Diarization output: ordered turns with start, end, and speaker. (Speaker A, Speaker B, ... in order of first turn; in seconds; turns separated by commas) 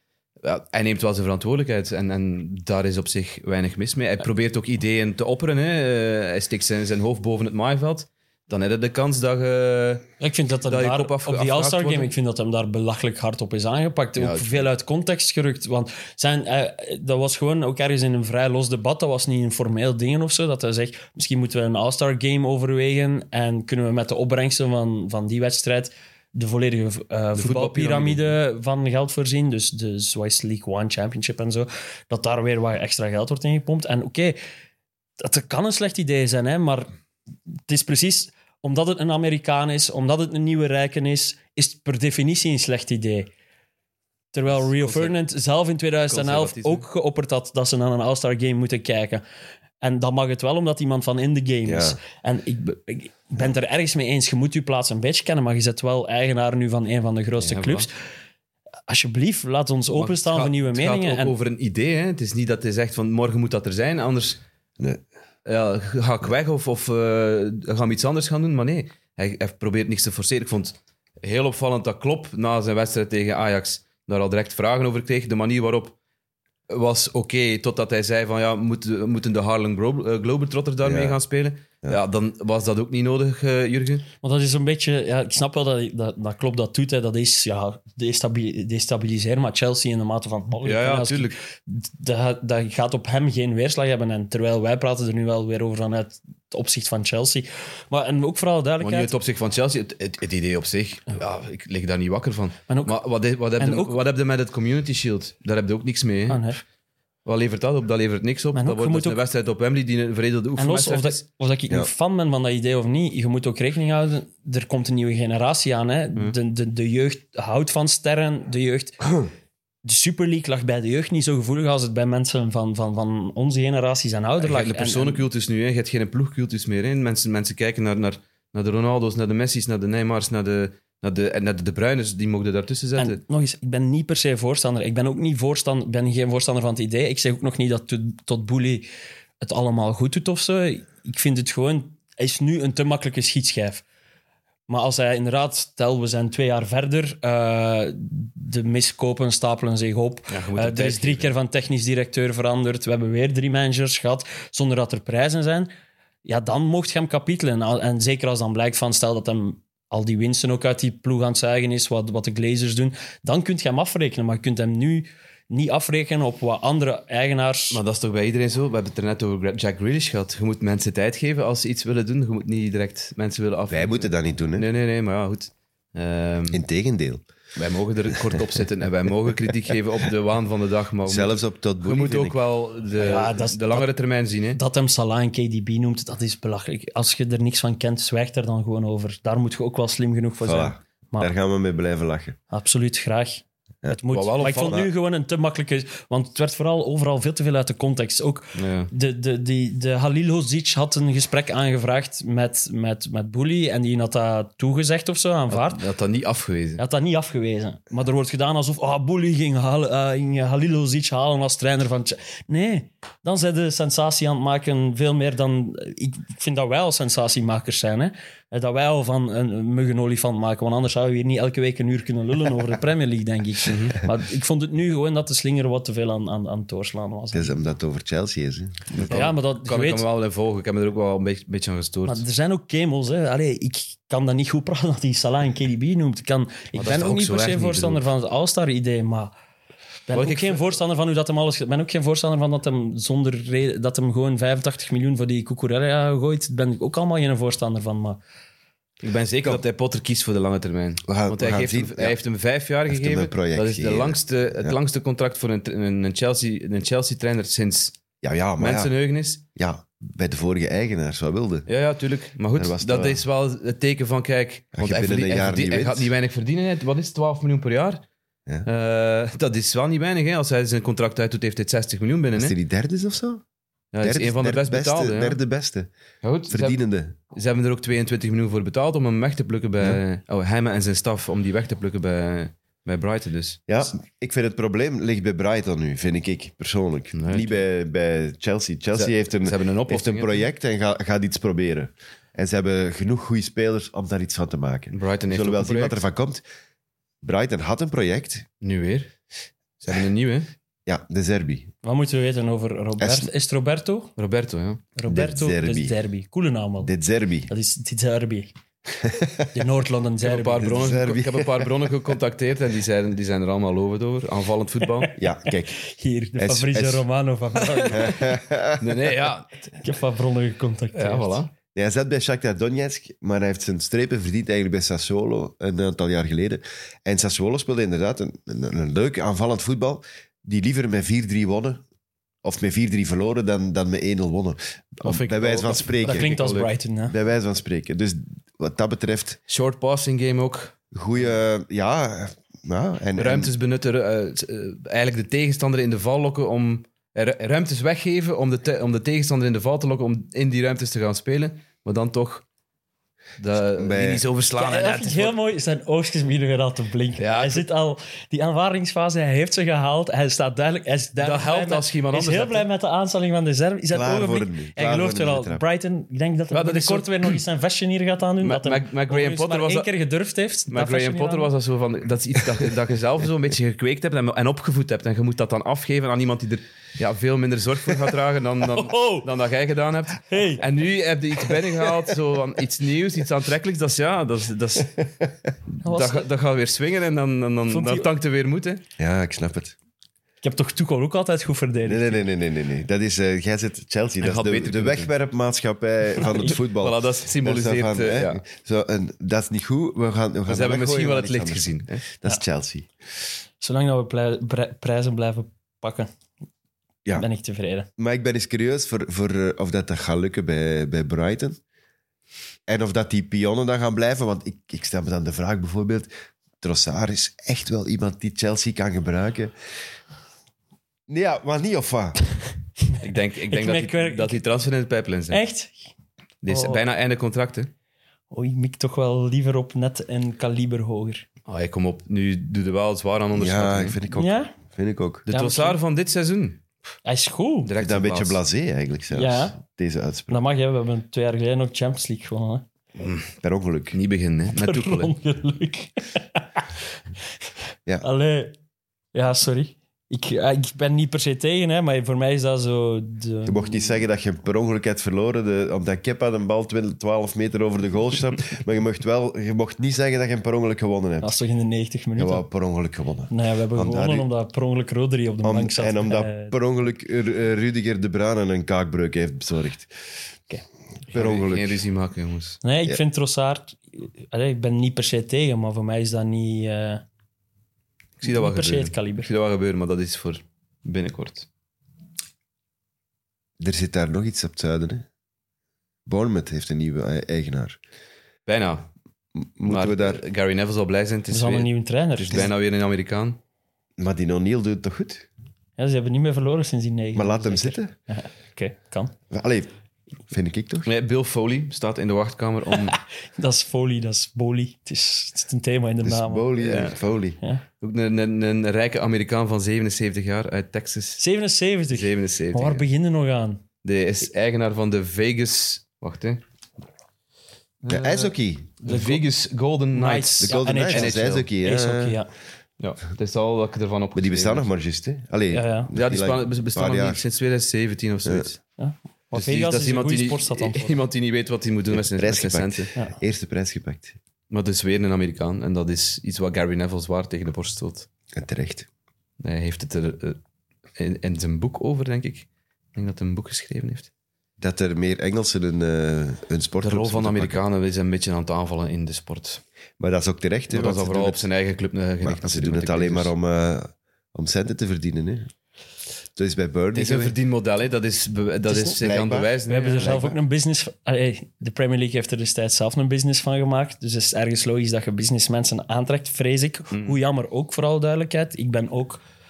Speaker A: 0.4-10.1, Speaker B: 10.2-34.4, Speaker A: 10.7-12.1, Speaker A: 14.2-14.7, Speaker A: 27.4-28.3, Speaker B: 35.2-36.9, Speaker B: 37.7-43.3, Speaker B: 44.3-49.2, Speaker A: 44.6-45.2, Speaker A: 46.1-46.9, Speaker B: 49.8-57.9, Speaker C: 51.7-52.0, Speaker A: 57.4-57.9, Speaker B: 58.9-61.3, Speaker A: 60.0-64.4, Speaker A: 65.5-76.0, Speaker A: 76.7-84.1, Speaker C: 80.8-81.2, Speaker B: 84.2-99.1, Speaker A: 90.6-91.4, Speaker A: 98.8-106.5, Speaker B: 102.7-103.0, Speaker B: 103.6-104.0, Speaker B: 106.3-106.6, Speaker A: 107.2-111.2, Speaker B: 108.5-109.2, Speaker B: 110.6-119.0, Speaker B: 119.8-125.2, Speaker A: 124.4-133.2, Speaker B: 133.0-138.9, Speaker B: 139.4-143.8, Speaker B: 144.7-155.7, Speaker A: 150.3-151.3, Speaker B: 156.2-167.8, Speaker A: 167.7-176.6, Speaker C: 173.7-174.7, Speaker C: 176.5-177.2, Speaker A: 177.6-184.6, Speaker C: 181.1-182.4, Speaker B: 183.0-183.9, Speaker B: 184.5-191.3, Speaker C: 190.4-192.4, Speaker B: 192.5-205.8, Speaker A: 194.1-194.8, Speaker A: 198.6-198.9, Speaker A: 205.5-206.8, Speaker B: 206.8-227.6, Speaker A: 223.7-224.0, Speaker C: 227.3-229.3, Speaker A: 228.9-232.2, Speaker B: 229.1-230.0, Speaker B: 232.1-239.3, Speaker A: 236.8-238.0, Speaker B: 240.1-248.2, Speaker A: 240.1-240.7, Speaker A: 249.0-258.0, Speaker C: 251.1-252.2, Speaker C: 252.9-254.8, Speaker C: 258.2-258.9, Speaker A: 258.6-259.4, Speaker C: 259.6-261.7, Speaker A: 261.7-268.0, Speaker C: 262.6-263.2, Speaker C: 264.8-266.1, Speaker A: 268.6-272.6, Speaker C: 272.4-273.4, Speaker A: 273.9-275.4, Speaker C: 274.0-275.9, Speaker A: 276.2-276.8, Speaker C: 276.5-277.1, Speaker A: 277.3-283.6, Speaker C: 283.7-296.4, Speaker A: 287.1-287.6, Speaker A: 288.9-290.5, Speaker A: 294.9-296.0, Speaker C: 297.2-298.5, Speaker A: 298.6-299.1, Speaker A: 299.8-300.5, Speaker C: 300.9-301.7, Speaker B: 301.8-304.1, Speaker C: 303.0-303.3, Speaker A: 304.2-304.8, Speaker B: 305.0-306.9, Speaker C: 305.1-305.9, Speaker C: 306.8-307.5, Speaker B: 307.5-308.5, Speaker C: 309.0-309.5, Speaker B: 309.5-310.8, Speaker A: 310.2-315.1, Speaker C: 310.6-311.7, Speaker C: 315.2-315.8, Speaker B: 315.8-318.3, Speaker C: 316.4-317.1, Speaker A: 317.7-318.1, Speaker C: 317.9-319.0, Speaker A: 318.8-319.5, Speaker B: 319.7-321.4, Speaker A: 320.9-321.5, Speaker C: 321.8-331.8, Speaker C: 332.4-339.4, Speaker A: 335.0-336.7, Speaker B: 336.0-337.1, Speaker A: 339.5-340.8, Speaker C: 340.9-343.5, Speaker A: 343.2-352.4, Speaker A: 353.4-355.4, Speaker C: 353.8-354.2, Speaker B: 354.6-371.5, Speaker A: 357.2-357.6, Speaker A: 361.2-362.6, Speaker C: 363.9-365.6, Speaker A: 366.5-367.4, Speaker A: 368.4-369.9, Speaker A: 370.7-385.1, Speaker B: 378.7-379.3, Speaker B: 380.3-380.6, Speaker B: 385.8-386.3, Speaker A: 385.8-388.8, Speaker B: 387.7-388.1, Speaker C: 389.0-389.8, Speaker B: 390.4-392.3, Speaker C: 391.9-402.9, Speaker A: 394.2-395.1, Speaker A: 396.2-398.4, Speaker A: 400.5-402.0, Speaker B: 403.6-406.1, Speaker B: 407.1-407.9, Speaker C: 408.0-411.6, Speaker C: 412.7-416.1, Speaker C: 416.6-419.5, Speaker C: 421.1-422.2, Speaker A: 423.0-425.4, Speaker B: 423.5-424.4, Speaker B: 425.3-425.9, Speaker A: 426.4-427.7, Speaker B: 426.5-426.8, Speaker B: 428.3-431.2, Speaker A: 431.5-434.0, Speaker C: 433.3-435.3, Speaker B: 434.1-434.5, Speaker A: 435.3-436.6, Speaker B: 435.3-435.8, Speaker B: 437.1-437.7, Speaker A: 437.6-438.4, Speaker C: 437.8-440.4, Speaker B: 439.1-439.6, Speaker B: 440.3-442.6, Speaker A: 443.0-443.2, Speaker C: 443.4-444.0, Speaker A: 443.9-445.1, Speaker B: 444.5-446.6, Speaker B: 448.0-448.6, Speaker B: 449.1-454.0, Speaker C: 453.4-461.4, Speaker B: 461.2-462.4, Speaker C: 462.2-464.3, Speaker B: 463.3-466.6, Speaker C: 465.4-469.9, Speaker A: 471.1-472.6, Speaker C: 471.1-471.8, Speaker B: 472.6-477.0, Speaker A: 478.2-481.5, Speaker B: 478.2-479.3, Speaker C: 483.6-485.1, Speaker C: 486.1-487.8, Speaker A: 488.5-488.9, Speaker C: 489.4-490.2, Speaker A: 489.6-493.4, Speaker B: 491.3-492.5, Speaker C: 494.0-495.3, Speaker B: 495.8-499.1, Speaker C: 497.1-497.9, Speaker C: 499.3-499.7, Speaker C: 500.3-500.9, Speaker A: 500.9-503.0, Speaker B: 502.9-506.6, Speaker C: 506.0-507.4, Speaker A: 506.6-507.0, Speaker A: 507.8-511.2, Speaker B: 511.2-513.6, Speaker A: 511.9-512.8, Speaker A: 513.8-516.4, Speaker A: 517.8-521.5, Speaker C: 517.9-518.7, Speaker B: 518.9-519.2, Speaker B: 520.0-522.3, Speaker C: 520.4-522.2, Speaker A: 522.8-524.7, Speaker C: 524.1-527.2, Speaker B: 525.5-525.9, Speaker A: 525.9-528.6, Speaker B: 528.8-531.0, Speaker A: 529.3-532.9, Speaker C: 531.9-534.2, Speaker A: 534.5-538.1, Speaker C: 538.4-538.9, Speaker A: 539.4-540.4, Speaker A: 541.0-544.1, Speaker C: 544.6-547.6, Speaker A: 546.8-549.6, Speaker C: 550.0-551.5, Speaker A: 550.7-553.3, Speaker C: 552.2-555.5, Speaker C: 556.4-557.4, Speaker A: 556.9-560.2, Speaker C: 558.8-560.4, Speaker B: 559.7-569.2, Speaker A: 566.9-567.2